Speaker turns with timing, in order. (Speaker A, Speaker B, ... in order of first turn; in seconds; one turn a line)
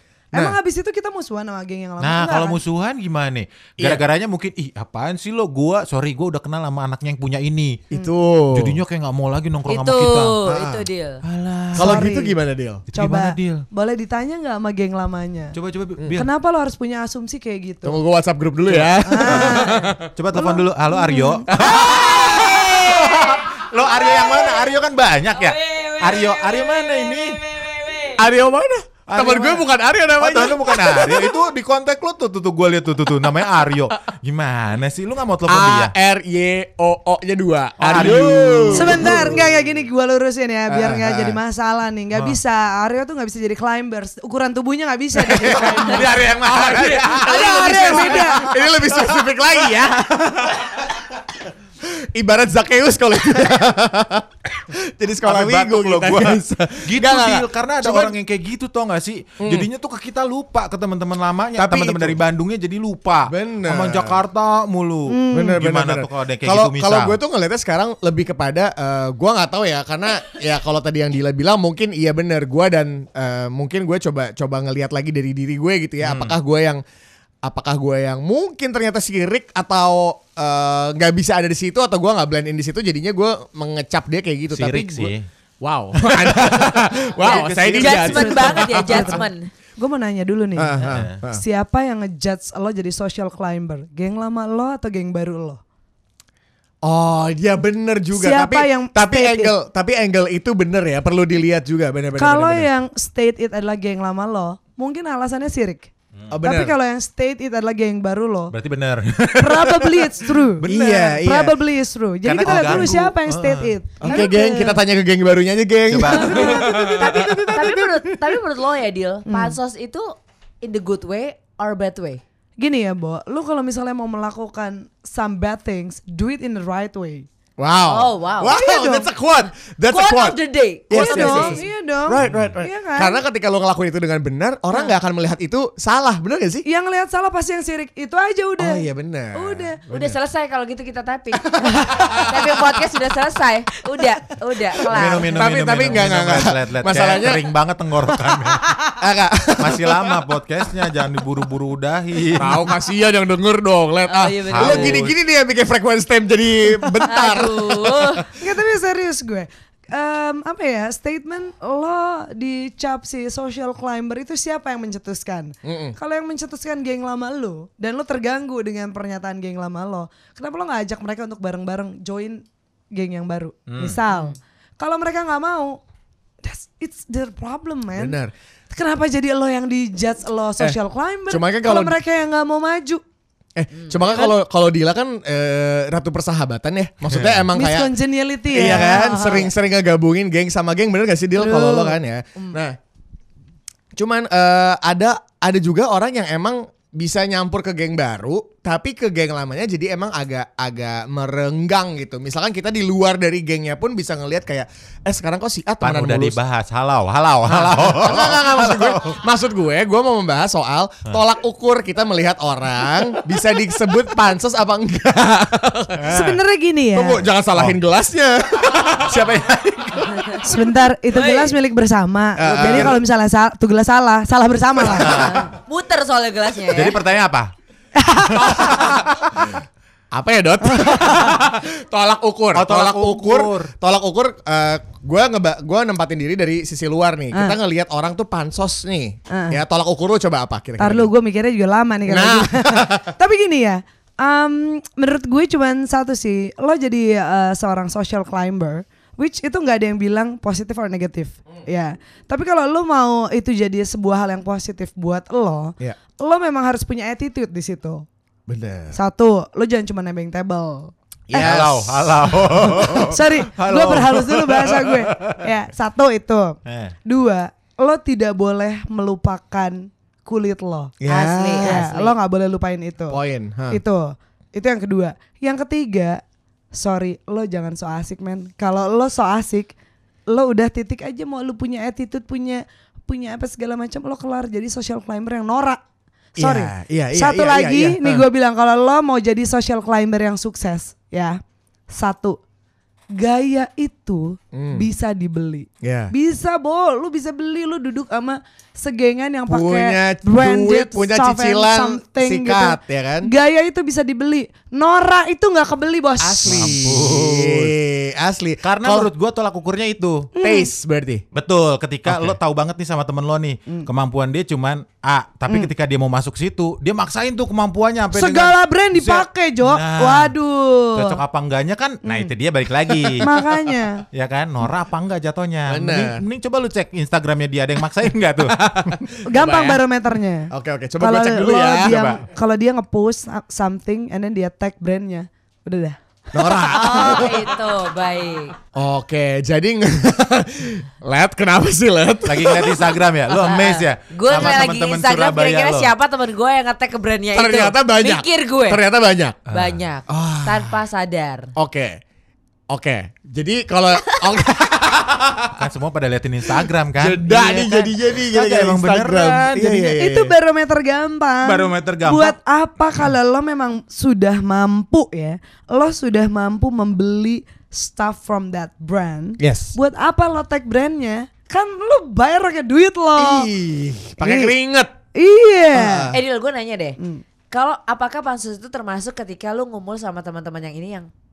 Speaker A: 0.3-2.6
Speaker B: 2.0-7.8
Speaker C: 7.9-8.8
Speaker B: 8.5-10.4
Speaker D: 9.7-11.2
Speaker C: 10.4-10.8
Speaker B: 11.2-12.0
Speaker C: 11.7-12.8
Speaker A: 11.8-12.4
Speaker B: 12.9-13.7
Speaker A: 12.9-15.6
Speaker B: 15.5-16.3
Speaker A: 16.1-18.0
Speaker C: 17.8-20.1
Speaker B: 18.7-27.4
Speaker A: 19.0-21.4
Speaker C: 21.5-22.8
Speaker D: 21.8-24.6
Speaker D: 25.3-28.2
Speaker C: 28.2-31.4
Speaker B: 29.1-29.6
Speaker B: 30.2-35.9
Speaker C: 35.5-39.5
Speaker B: 37.8-39.2
Speaker A: 38.7-46.0
Speaker C: 40.7-41.4
Speaker B: 45.2-49.3
Speaker C: 45.3-50.8
Speaker A: 47.2-48.5
Speaker C: 52.0-58.1
Speaker B: 55.2-67.2
Speaker C: 59.4-59.7
Speaker C: 61.6-62.2
Speaker C: 63.2-64.2
Speaker A: 65.1-65.6
Speaker C: 65.3-76.8
Speaker B: 76.0-76.3
Speaker C: 77.4-89.2
Speaker B: 84.5-85.3
Speaker B: 86.0-88.3
Speaker D: 87.2-89.5
Speaker A: 88.1-95.6
Speaker C: 90.6-91.4
Speaker B: 90.9-91.2
Speaker C: 96.8-102.7
Speaker A: 98.1-99.5
Speaker A: 102.2-105.9
Speaker C: 106.3-106.7
Speaker A: 106.4-108.5
Speaker B: 108.5-111.2
Speaker A: 109.4-114.8
Speaker C: 110.7-111.6
Speaker B: 112.2-113.7
Speaker C: 112.4-112.9
Speaker C: 114.0-118.2
Speaker B: 115.9-116.7
Speaker A: 116.1-117.5
Speaker D: 116.3-120.1
Speaker A: 119.3-119.5
Speaker D: 120.6-122.2
Speaker A: 122.6-127.2
Speaker C: 127.6-130.4
Speaker D: 127.9-128.5
Speaker A: 128.5-129.1
Speaker D: 129.9-131.6
Speaker C: 130.9-136.6
Speaker A: 130.9-133.2
Speaker B: 132.2-132.5
Speaker A: 136.7-139.8
Speaker C: 138.6-140.2
Speaker D: 139.9-145.6
Speaker C: 141.9-142.5
Speaker B: 144.9-148.8
Speaker C: 145.0-147.4
Speaker C: 149.0-150.2
Speaker B: 149.6-152.7
Speaker C: 152.3-158.2
Speaker D: 154.1-155.1
Speaker B: 154.5-155.1
Speaker D: 157.0-158.2
Speaker A: 158.4-175.8
Speaker C: 165.6-165.9
Speaker B: 173.7-174.0
Speaker A: 176.4-178.2
Speaker C: 177.9-178.3
Speaker A: 178.7-183.0
Speaker C: 181.3-182.0
Speaker C: 183.6-187.9
Speaker D: 183.8-184.1
Speaker B: 187.1-187.4
Speaker A: 187.5-189.5
Speaker C: 188.5-192.8
Speaker A: 191.3-192.6
Speaker C: 193.9-206.4
Speaker B: 205.8-209.1
Speaker C: 207.4-216.2
Speaker B: 215.9-216.4
Speaker A: 216.1-217.2
Speaker C: 216.9-219.4
Speaker B: 218.9-220.4
Speaker A: 220.4-225.2
Speaker D: 221.1-221.6
Speaker C: 222.4-223.0
Speaker B: 222.5-223.0
Speaker C: 224.9-225.3
Speaker B: 224.9-225.5
Speaker D: 225.1-227.0
Speaker B: 226.7-227.5
Speaker A: 227.9-228.8
Speaker C: 228.4-229.4
Speaker B: 228.5-229.2
Speaker C: 230.1-241.1
Speaker B: 232.5-233.7
Speaker A: 239.3-239.6
Speaker A: 240.8-258.1
Speaker C: 242.1-243.1
Speaker C: 258.5-258.9
Speaker A: 258.9-261.5
Speaker C: 261.3-263.2
Speaker B: 261.3-265.4
Speaker A: 263.0-270.9
Speaker B: 266.6-266.9
Speaker C: 271.0-271.9
Speaker D: 271.1-272.1
Speaker A: 271.6-273.2
Speaker C: 273.1-273.8
Speaker A: 273.7-276.2
Speaker A: 276.7-279.7
Speaker A: 280.3-285.8
Speaker C: 286.4-288.2
Speaker A: 286.4-291.4
Speaker A: 291.9-292.4
Speaker A: 293.1-306.8
Speaker C: 294.5-294.8
Speaker C: 295.8-296.1
Speaker C: 299.5-303.3
Speaker C: 306.2-309.1
Speaker B: 306.4-307.7
Speaker B: 308.6-310.3
Speaker A: 310.3-310.7
Speaker C: 310.4-311.2
Speaker B: 311.3-320.3
Speaker C: 312.1-312.4
Speaker A: 318.1-321.2
Speaker B: 320.9-323.3
Speaker A: 322.0-322.3
Speaker A: 323.2-324.1
Speaker B: 324.1-329.0
Speaker C: 325.7-326.2
Speaker C: 328.6-329.8
Speaker A: 329.2-337.2
Speaker C: 330.5-332.2
Speaker B: 331.9-332.1
Speaker C: 336.3-337.5
Speaker D: 336.7-338.5
Speaker C: 338.7-343.0
Speaker B: 342.2-345.9
Speaker D: 343.3-348.8
Speaker C: 347.3-349.4
Speaker D: 349.5-351.5
Speaker B: 349.5-349.8
Speaker C: 350.1-350.8
Speaker C: 351.6-352.0
Speaker C: 352.7-355.6
Speaker B: 355.6-359.8
Speaker C: 356.6-360.3
Speaker A: 359.6-373.5
Speaker B: 361.4-362.4
Speaker C: 369.4-369.8
Speaker C: 373.1-374.9
Speaker A: 374.2-374.5
Speaker A: 375.1-376.1
Speaker C: 375.7-376.2
Speaker D: 376.1-377.0
Speaker D: 377.5-381.1